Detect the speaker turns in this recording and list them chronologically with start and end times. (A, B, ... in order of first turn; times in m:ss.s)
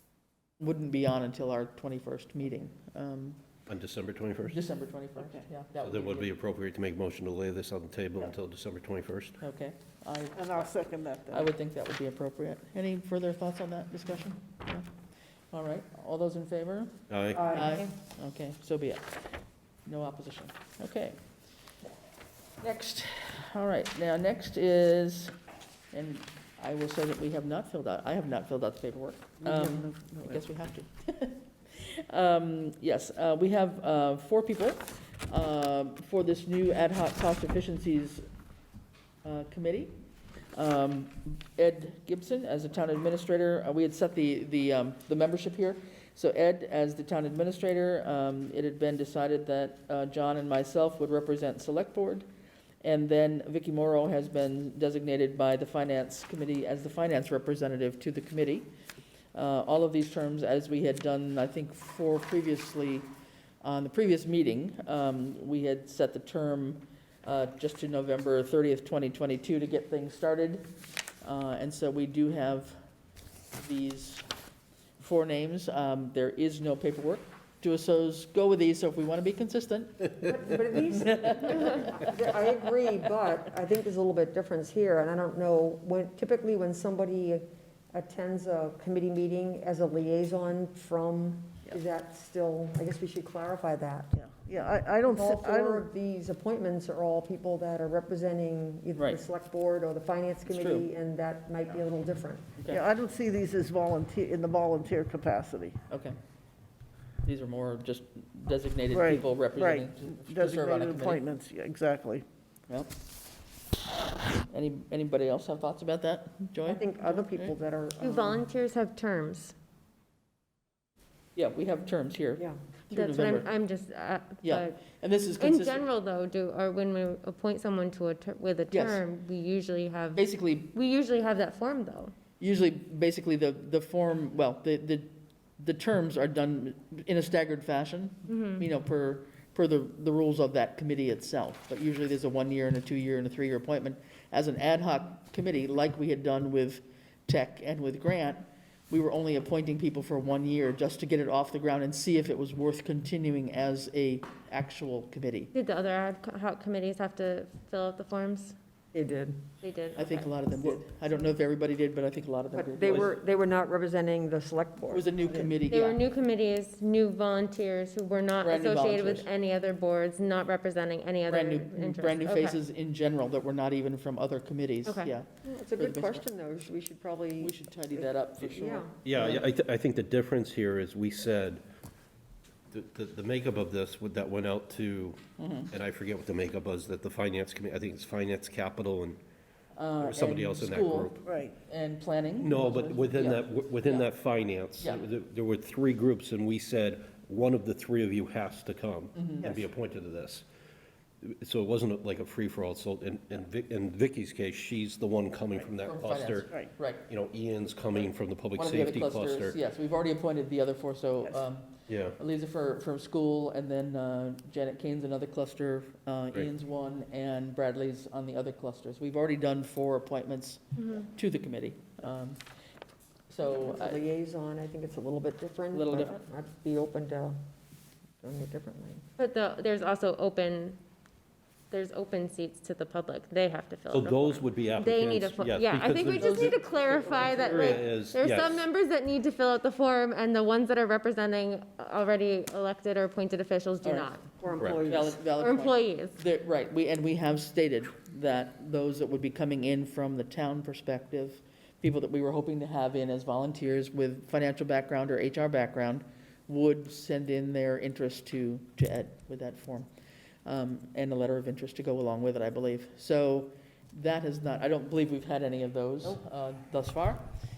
0:00.6-0:03.4 A
0:03.7-0:04.6 B
0:04.5-0:06.3 A
0:05.8-0:09.4 B
0:09.4-0:14.9 A
0:10.4-0:11.5 C
0:15.5-0:19.2 A
0:17.1-0:17.6 B
0:17.6-0:17.8 D
0:19.9-0:21.2 A
0:22.6-0:25.4 A
0:25.9-0:38.3 A
0:29.4-0:30.4 C
0:39.2-0:40.0 A
0:40.5-0:52.3 A
0:52.8-0:58.7 A
0:59.3-1:10.7 A
1:11.2-1:12.8 A
1:13.6-1:14.3 A
1:15.0-1:22.1 A
1:20.2-1:34.2 E
1:34.2-1:35.9 C
1:35.0-1:42.6 E
1:39.0-1:39.2 A
1:40.5-1:40.9 A
1:42.7-1:45.8 C
1:45.9-1:46.2 A
1:47.2-1:51.2 A
1:48.9-1:52.2 C
1:54.5-1:57.5 A
1:56.7-1:58.5 E
1:58.0-1:59.6 D
2:01.4-2:03.5 A
2:02.9-2:04.8 D
2:04.4-2:05.8 A
2:05.4-2:12.1 D
2:08.7-2:09.0 A
2:10.2-2:10.7 A
2:12.4-2:35.5 A
2:18.3-2:18.6 D
2:35.5-2:38.6 D
2:38.9-2:39.5 E
2:39.6-2:40.4 D
2:40.0-2:43.2 A
2:42.5-2:45.1 E
2:44.9-2:46.0 A
2:45.7-2:52.6 D
2:48.4-2:49.3 A
2:51.3-2:56.2 A
2:54.8-2:55.1 D
2:55.4-2:58.9 E
2:57.4-2:59.5 A
2:59.0-3:01.6 B
3:02.7-3:09.2 B
3:05.4-3:05.7 A
3:09.8-3:14.1 A
3:10.0-3:11.2 B
3:11.2-3:11.5 C
3:12.4-3:20.5 B
3:14.8-3:15.0 A
3:19.2-3:19.5 A
3:21.2-3:29.6 B
3:25.8-3:27.1 A
3:28.5-3:42.4 A
3:31.9-3:32.2 B
3:40.8-3:41.0 D
3:43.3-3:44.0 A
3:43.4-3:47.4 E
3:45.7-3:46.2 A
3:48.2-3:49.0 E
3:49.2-3:50.8 D
3:51.7-4:04.3 D
3:53.9-3:56.6 B
3:56.2-3:57.9 A
3:57.3-3:58.7 B
4:03.8-4:19.9 A
4:04.4-4:05.2 E
4:05.3-4:06.2 D
4:20.4-4:27.3 A